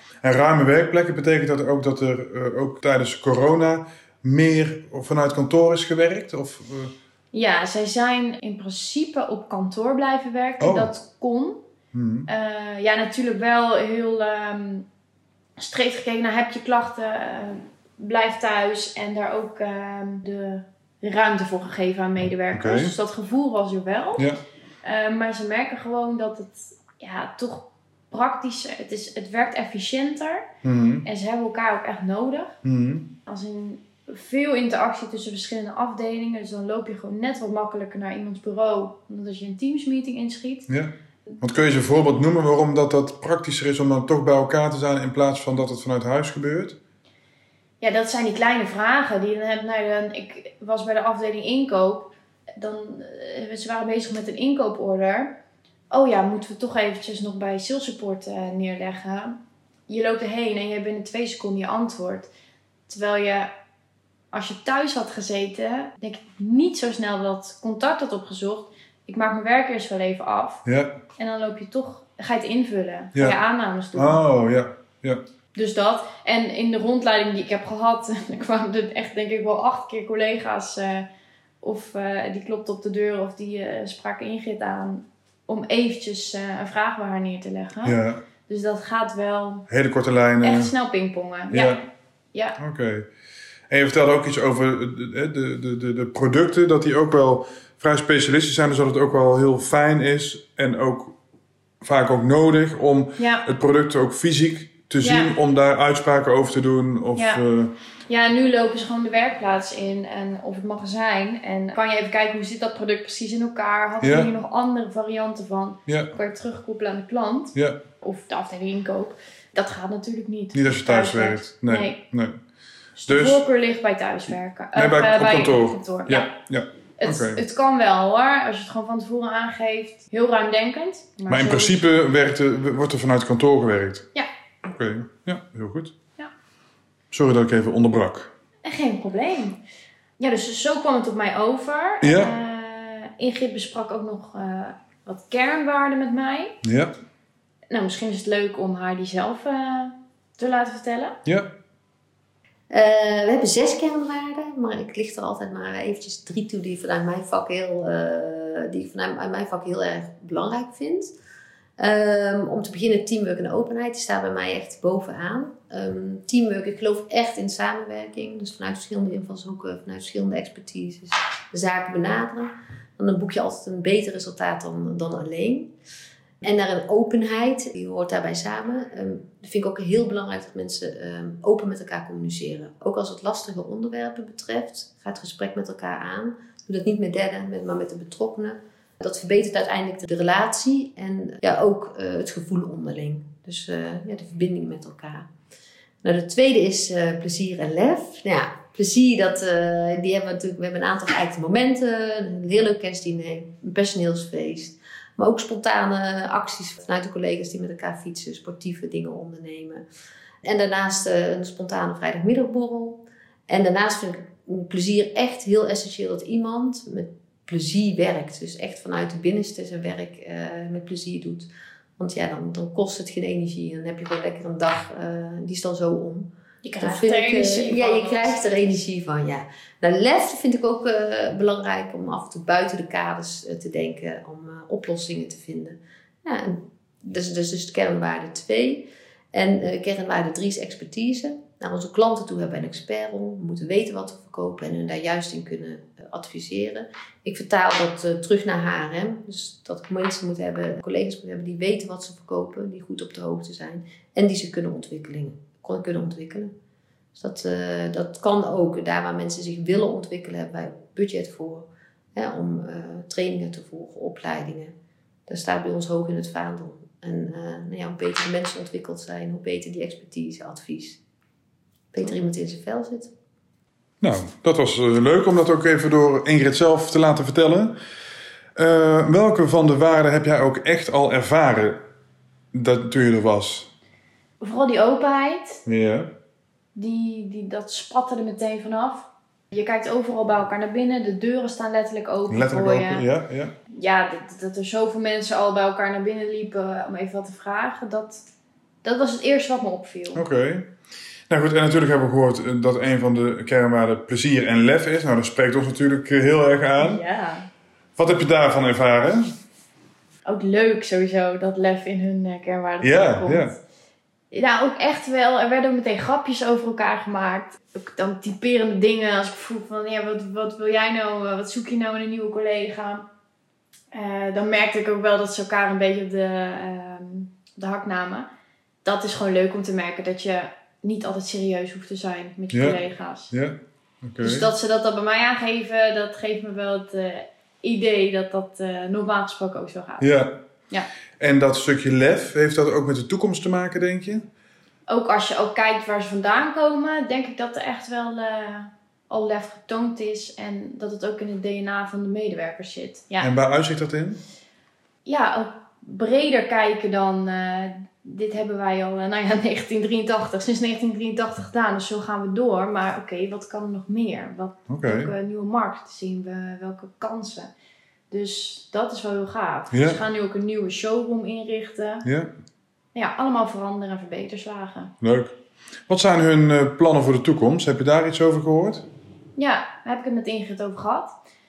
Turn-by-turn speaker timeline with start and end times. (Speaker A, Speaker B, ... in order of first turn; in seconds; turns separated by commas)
Speaker A: 0.2-6.9, Speaker B: 7.3-11.6, Speaker A: 10.6-10.9, Speaker A: 11.9-12.3, Speaker B: 12.3-14.8, Speaker B: 15.6-24.3, Speaker A: 22.5-22.9, Speaker B: 24.8-30.5, Speaker A: 30.6-31.1, Speaker B: 31.0-32.6, Speaker A: 32.6-33.1, Speaker B: 33.2-40.7, Speaker A: 40.7-46.8, Speaker B: 47.8-55.4, Speaker B: 55.9-59.4, Speaker B: 59.9-62.3, Speaker B: 62.9-63.5, Speaker B: 64.3-70.6, Speaker A: 70.7-70.9, Speaker B: 71.2-74.2, Speaker A: 73.9-75.2, Speaker B: 75.5-81.1, Speaker B: 81.6-89.7, Speaker A: 87.8-88.2, Speaker A: 89.7-90.7, Speaker B: 90.4-91.8, Speaker A: 91.5-91.8, Speaker A: 92.6-93.0, Speaker A: 93.7-101.1, Speaker A: 101.8-107.7, Speaker B: 103.2-103.5, Speaker B: 105.0-105.3, Speaker B: 107.2-107.4, Speaker B: 108.1-122.0, Speaker A: 114.0-114.3, Speaker A: 115.9-116.1, Speaker A: 117.5-117.8, Speaker A: 120.5-122.4, Speaker B: 123.0-126.3, Speaker A: 123.1-123.4, Speaker A: 124.7-127.4, Speaker B: 127.0-131.8, Speaker A: 131.3-134.1, Speaker A: 134.6-135.9, Speaker A: 137.1-138.3, Speaker B: 138.6-139.6, Speaker B: 140.2-146.6, Speaker A: 142.0-142.3, Speaker A: 146.6-146.9, Speaker B: 147.7-151.2, Speaker A: 151.2-151.6, Speaker C: 152.7-161.1, Speaker C: 161.8-175.7, Speaker C: 176.4-195.3, Speaker C: 196.0-209.8, Speaker C: 210.4-256.5, Speaker B: 226.6-228.7, Speaker C: 257.1-264.7, Speaker C: 265.3-271.0, Speaker C: 271.9-273.1, Speaker A: 274.0-277.8, Speaker A: 278.6-281.8, Speaker A: 282.5-283.7, Speaker B: 284.4-285.6, Speaker A: 285.6-286.1, Speaker B: 286.7-293.1, Speaker A: 292.3-293.5, Speaker B: 293.7-298.2, Speaker B: 298.8-300.2, Speaker A: 300.1-300.7, Speaker A: 301.3-307.0, Speaker B: 306.8-307.5, Speaker A: 308.0-309.3, Speaker B: 310.2-313.6, Speaker A: 312.8-313.6, Speaker B: 314.3-323.1, Speaker B: 323.9-328.3, Speaker B: 328.8-333.3, Speaker A: 332.5-334.5, Speaker B: 334.2-340.1, Speaker A: 340.0-340.4, Speaker A: 341.2-344.3, Speaker B: 344.9-353.3, Speaker A: 353.2-354.2, Speaker B: 355.0-367.5, Speaker A: 364.7-365.1, Speaker B: 368.1-372.1, Speaker A: 369.7-370.0, Speaker A: 372.0-372.3, Speaker B: 372.9-374.9, Speaker A: 375.0-375.4, Speaker A: 375.9-378.9, Speaker B: 379.4-381.1